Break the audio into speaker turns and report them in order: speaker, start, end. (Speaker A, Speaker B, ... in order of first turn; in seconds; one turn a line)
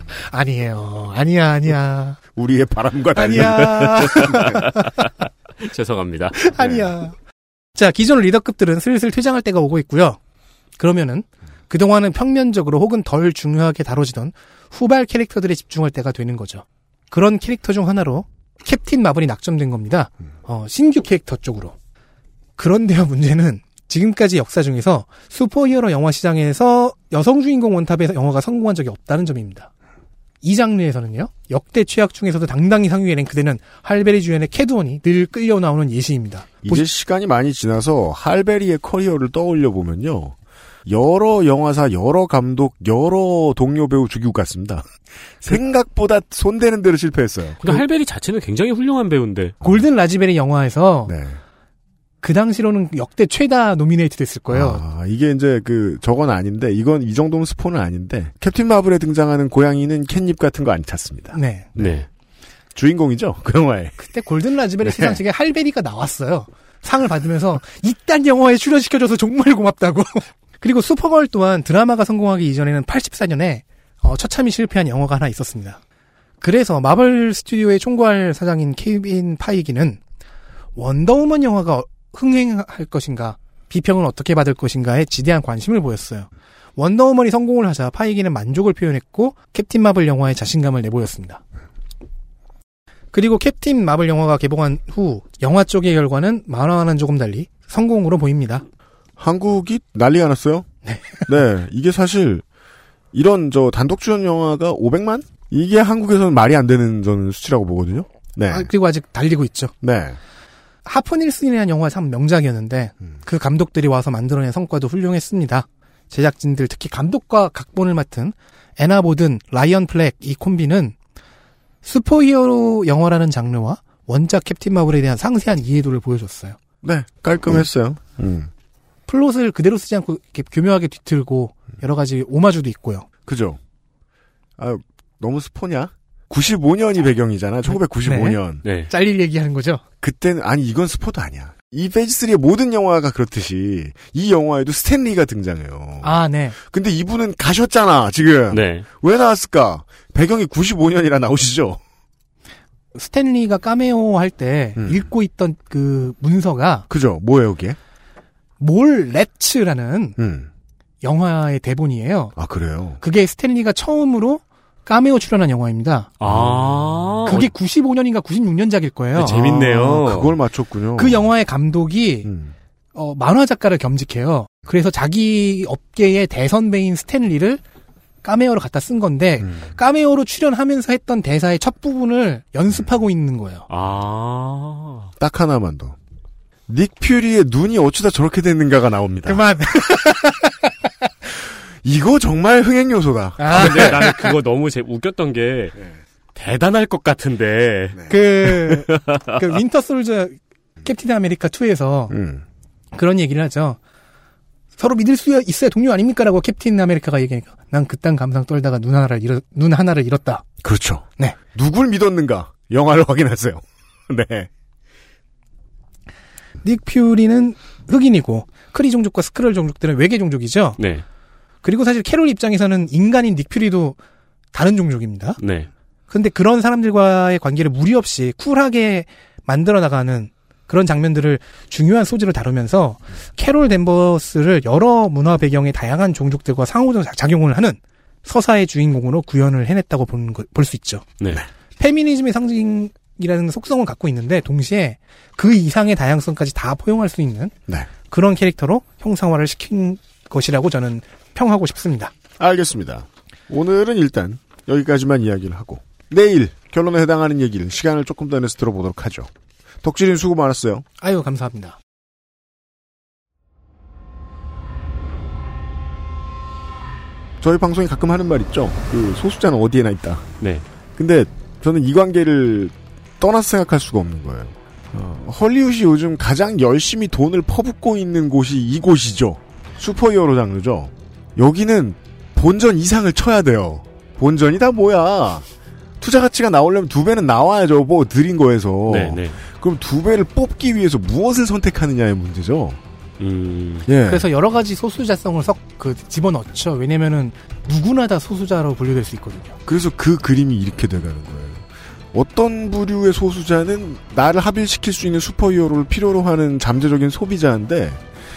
Speaker A: 0.2-2.2
Speaker B: 2.3-4.7
Speaker A: 3.1-4.9
Speaker C: 4.0-5.1
Speaker C: 5.6-6.5
Speaker A: 6.5-7.1
Speaker B: 6.5-6.9
Speaker A: 7.8-10.2
Speaker A: 10.8-21.7
Speaker A: 22.6-29.7
Speaker A: 30.4-36.8
Speaker B: 36.6-40.3
Speaker B: 40.9-44.9
Speaker B: 45.4-47.8
Speaker C: 47.6-49.6
Speaker A: 49.6-51.1
Speaker B: 51.0-51.4
Speaker A: 52.2-54.8
Speaker B: 54.5-62.0
Speaker A: 61.3-61.7
Speaker C: 61.8-62.1
Speaker B: 62.7-64.0
Speaker A: 64.0-75.8
Speaker B: 64.8-65.2
Speaker A: 76.4-80.0
Speaker A: 80.8-91.4
Speaker A: 93.1-98.6
Speaker B: 99.2-100.7
Speaker A: 100.8-101.2
Speaker B: 101.2-102.4
Speaker B: 103.1-108.7
Speaker A: 108.5-109.7
Speaker B: 109.8-110.2
Speaker A: 110.8-120.9
Speaker A: 121.8-126.6
Speaker B: 126.8-128.5
Speaker A: 129.1-133.1
Speaker B: 133.3-133.6
Speaker B: 134.6-138.6
Speaker A: 137.7-139.8
Speaker C: 138.6-138.9
Speaker B: 140.0-151.8
Speaker A: 146.0-146.6
Speaker C: 148.5-148.9
Speaker A: 152.9-156.9
Speaker B: 154.8-155.1
Speaker B: 156.9-157.8
Speaker A: 158.6-160.2
Speaker B: 160.2-160.5
Speaker A: 161.0-162.3
Speaker B: 162.3-163.0
Speaker A: 163.0-166.1
Speaker C: 166.2-167.5
Speaker B: 166.2-166.9
Speaker A: 167.2-169.4
Speaker C: 169.2-170.4
Speaker B: 169.3-171.3
Speaker A: 171.0-172.3
Speaker B: 172.2-172.5
Speaker A: 172.9-177.6
Speaker A: 178.2-183.7
Speaker B: 179.4-179.7
Speaker C: 183.7-185.1
Speaker B: 185.2-185.9
Speaker B: 186.7-189.4
Speaker A: 189.2-190.5
Speaker B: 191.8-194.1
Speaker A: 193.4-194.2
Speaker C: 193.5-195.8
Speaker C: 196.3-199.4
Speaker A: 198.1-202.1
Speaker B: 202.1-202.4
Speaker A: 202.9-203.8
Speaker A: 204.8-210.4
Speaker B: 210.6-214.5
Speaker A: 216.6-220.8
Speaker C: 220.8-221.0
Speaker A: 221.6-224.0
Speaker A: 224.5-225.4
Speaker C: 225.4-225.7
Speaker A: 226.1-241.1
Speaker A: 241.8-247.5
Speaker A: 248.1-252.1
Speaker B: 252.4-259.3
Speaker B: 259.8-260.8
Speaker A: 261.0-261.8
Speaker B: 267.4-270.3
Speaker B: 271.0-285.5
Speaker B: 286.0-292.8
Speaker C: 288.9-289.4
Speaker C: 293.2-293.9
Speaker B: 293.8-294.2
Speaker A: 294.0-299.6
Speaker B: 299.6-308.0